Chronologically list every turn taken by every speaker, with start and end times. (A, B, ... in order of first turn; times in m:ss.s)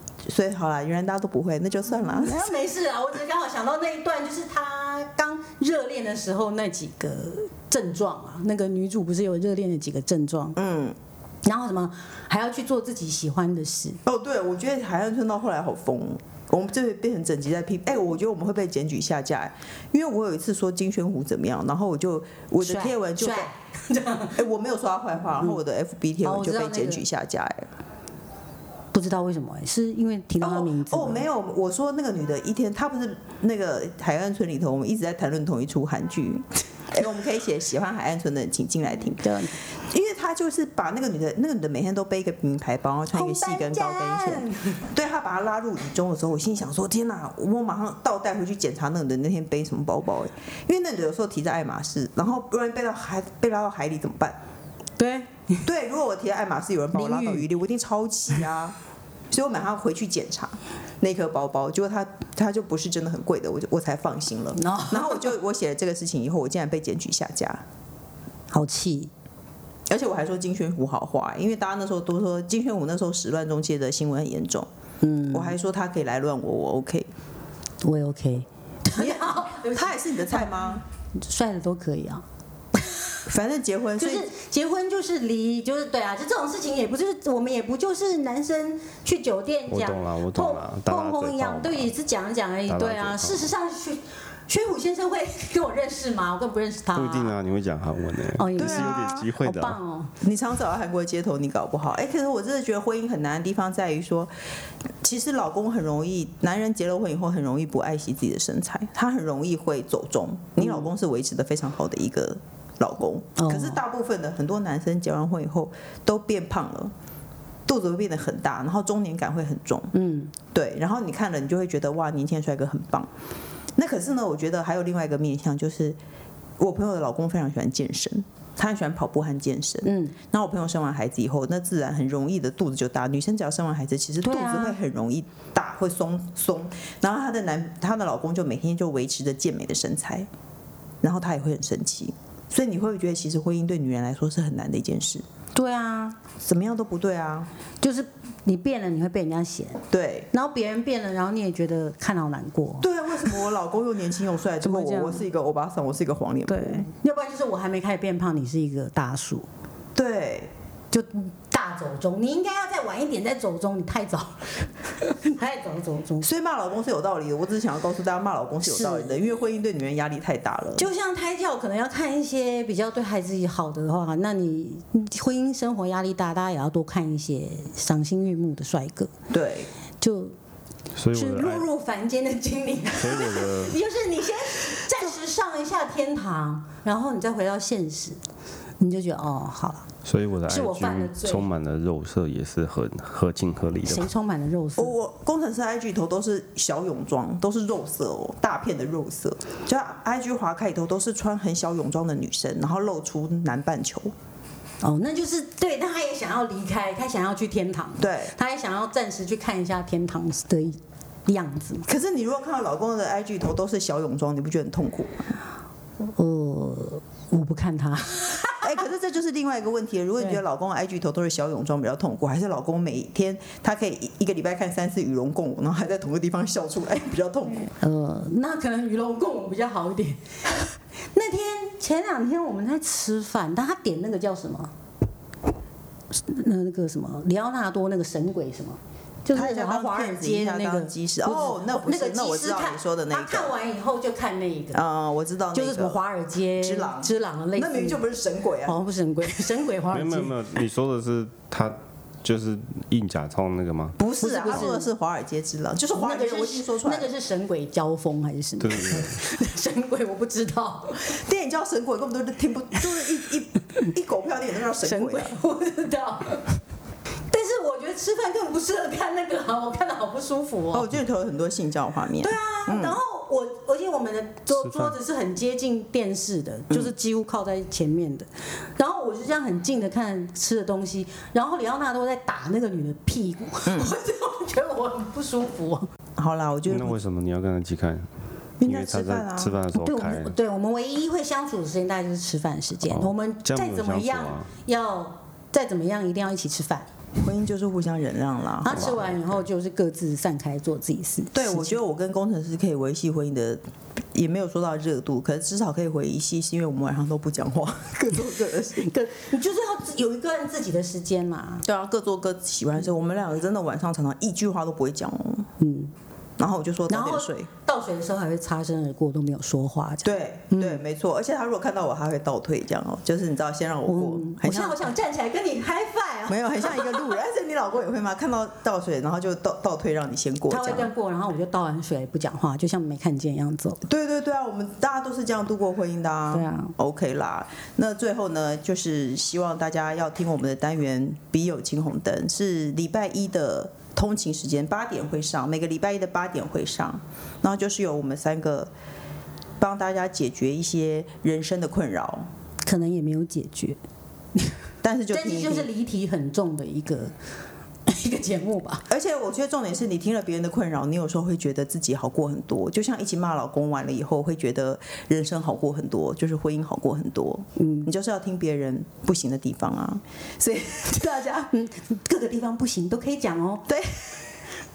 0:00.2-0:02.5 A
0:02.1-0:10.6 B
0:10.6-0:11.0 A
0:11.4-0:14.0 B
0:14.0-0:23.5 A
0:22.6-0:24.4 B
0:24.3-0:27.7 A
0:26.2-0:27.0 B
0:28.9-0:31.2 B
0:30.4-0:54.4 A
0:39.2-0:39.6 B
0:43.1-0:44.8 B
0:55.0-0:55.6 B
0:55.6-0:58.8 A
0:56.9-0:57.5 B
0:59.3-1:07.6 A
1:04.6-1:05.3 B
1:08.5-1:09.1 B
1:09.9-1:14.7 A
1:15.0-1:15.5 B
1:15.3-1:17.1 A
1:17.8-1:20.5 B
1:19.0-1:20.8 A
1:21.2-1:22.2 B
1:22.8-1:23.2 B
1:23.3-1:24.3 A
1:24.0-1:37.3 B
1:29.7-1:31.9 C
1:32.7-1:33.5 C
1:36.9-1:39.8 C
1:38.4-1:40.1 B
1:38.6-1:39.3 A
1:40.2-1:44.3 A
1:45.0-1:56.9 A
1:53.4-1:53.8 B
1:57.7-1:59.9 A
1:59.9-2:00.3 B
2:00.5-2:03.1 A
2:03.8-2:06.0 A
2:06.6-2:20.3 A
2:09.8-2:10.2 B
2:14.2-2:14.8 B
2:21.0-2:25.3 A
2:25.6-2:26.2 B
2:26.4-2:27.5 A
2:27.8-2:32.9 B
2:29.9-2:30.3 A
2:32.8-2:36.9 A
2:34.6-2:35.2 B
2:36.5-2:39.5 B
2:40.0-2:40.5 A
2:40.9-2:46.3 B
2:46.2-2:50.9 A
2:48.6-2:49.2 B
2:50.8-2:59.1 B
2:59.3-2:59.7 A
3:00.0-3:00.4 B
3:01.0-3:01.7 C
3:01.1-3:08.2 B
3:03.0-3:03.8 C
3:08.8-3:09.9 B
3:10.0-3:14.1 C
3:10.5-3:11.5 B
3:13.9-3:14.9 B
3:14.8-3:24.1 A
3:24.8-3:31.9 B
3:28.0-3:28.3 A
3:31.9-3:35.3 A
3:36.0-3:38.8 B
3:38.6-3:47.7 A
3:47.7-3:54.7 B
3:56.1-4:04.8 B
3:59.3-4:03.5 A
4:04.7-4:06.0 A
4:05.5-4:08.0 B
4:06.5-4:08.8 A
4:08.7-4:10.3 B
4:09.9-4:14.0 C
4:14.0-4:17.1 A
4:14.2-4:14.9 B
4:15.9-4:21.2 B
4:18.6-4:19.2 C
4:21.1-4:25.4 A
4:24.8-4:26.5 B
4:27.3-4:30.9 B
4:30.7-4:33.0 A
4:32.2-4:45.9 B
4:34.5-4:35.0 C
4:43.7-4:44.0 A
4:46.2-4:47.0 A
4:46.7-4:48.1 C
4:48.6-4:49.6 A
4:48.6-4:50.3 C
4:49.8-4:56.9 B
4:52.9-4:54.5 C
4:57.2-4:59.0 A
4:58.6-5:01.8 B
4:58.8-4:59.5 C
5:01.3-5:08.9 A
5:08.8-5:11.7 B
5:11.6-5:15.5 A
5:15.6-5:15.9 B
5:16.4-5:17.5 A
5:16.9-5:20.8 B
5:20.0-5:25.0 A
5:23.9-5:27.2 B
5:26.3-5:30.9 A
5:30.5-5:33.8 B
5:33.8-5:48.7 A
5:36.3-5:36.7 B
5:49.6-5:52.3 A
5:52.6-5:53.8 B
5:54.8-5:55.7 A
5:55.1-5:57.2 B
5:57.9-5:58.9 B
5:58.9-6:11.5 A
6:07.6-6:07.9 B
6:11.5-6:13.7 B
6:13.7-6:14.3 A